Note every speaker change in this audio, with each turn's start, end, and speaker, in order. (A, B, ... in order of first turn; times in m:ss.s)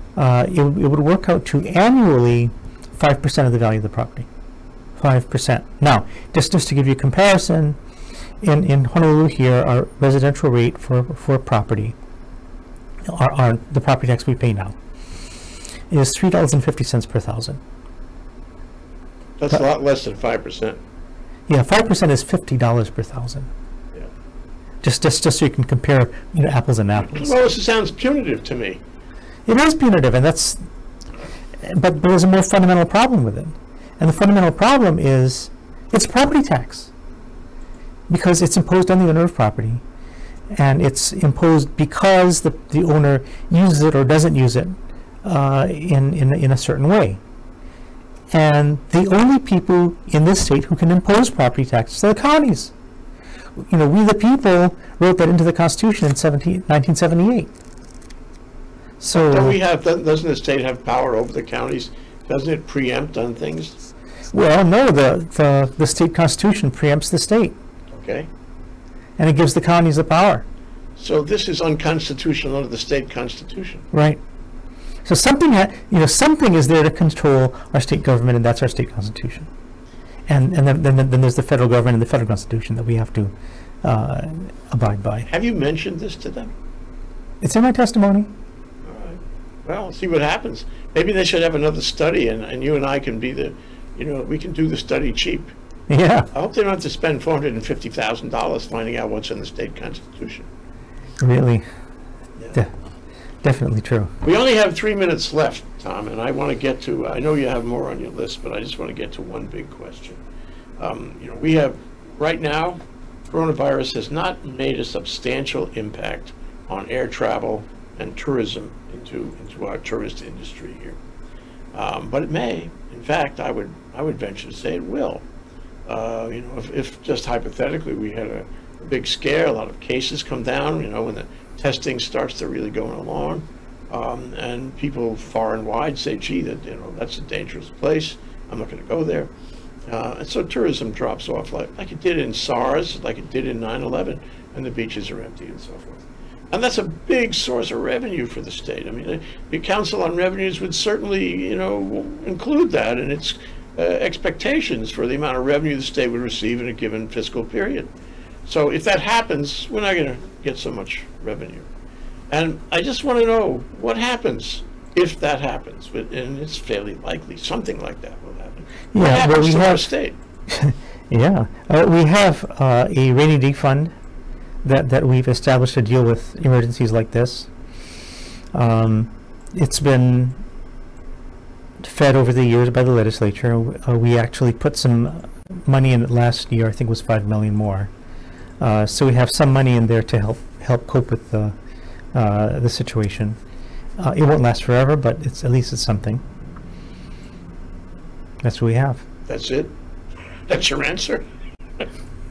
0:00.2-0:04.3 A
0:05.0-0:07.8 A
0:08.4-0:11.9 A
0:13.0-0:14.8 A
0:15.9-0:17.6 A
0:19.4-0:20.8 B
0:21.5-0:23.5 A
0:24.8-0:27.3 A
0:27.0-0:28.8 B
0:29.4-0:30.6 A
0:31.6-0:36.9 A
0:38.1-0:39.8 A
0:40.5-0:44.7 A
0:45.2-0:47.2 A
0:48.3-0:52.7 A
0:53.6-0:57.5 A
0:59.0-0:59.6 A
0:59.1-1:03.8 B
1:04.3-1:07.6 A
1:07.9-1:08.3 B
1:09.2-1:10.4 A
1:11.0-1:13.9 B
1:13.9-1:14.2 A
1:15.0-1:19.5 A
1:20.3-1:25.3 A
1:25.3-1:26.5 B
1:27.4-1:28.3 A
1:28.8-1:35.5 B
1:35.9-1:36.3 A
1:36.3-1:40.5 B
1:41.2-1:41.6 A
1:43.4-1:44.1 A
1:44.2-1:50.2 B
1:50.8-1:52.8 B
1:53.3-2:01.0 B
2:01.7-2:05.2 B
2:05.8-2:19.3 B
2:19.9-2:37.9 B
2:38.4-2:41.7 B
2:42.3-2:50.2 B
2:48.9-2:49.8 A
2:50.5-2:53.9 A
2:54.6-2:57.5 A
2:58.5-3:00.4 A
3:01.8-3:07.9 A
3:08.6-3:11.5 A
3:12.1-3:13.4 A
3:14.0-3:16.2 A
3:18.4-3:19.0 A
3:19.3-3:19.7 B
3:20.5-3:21.2 B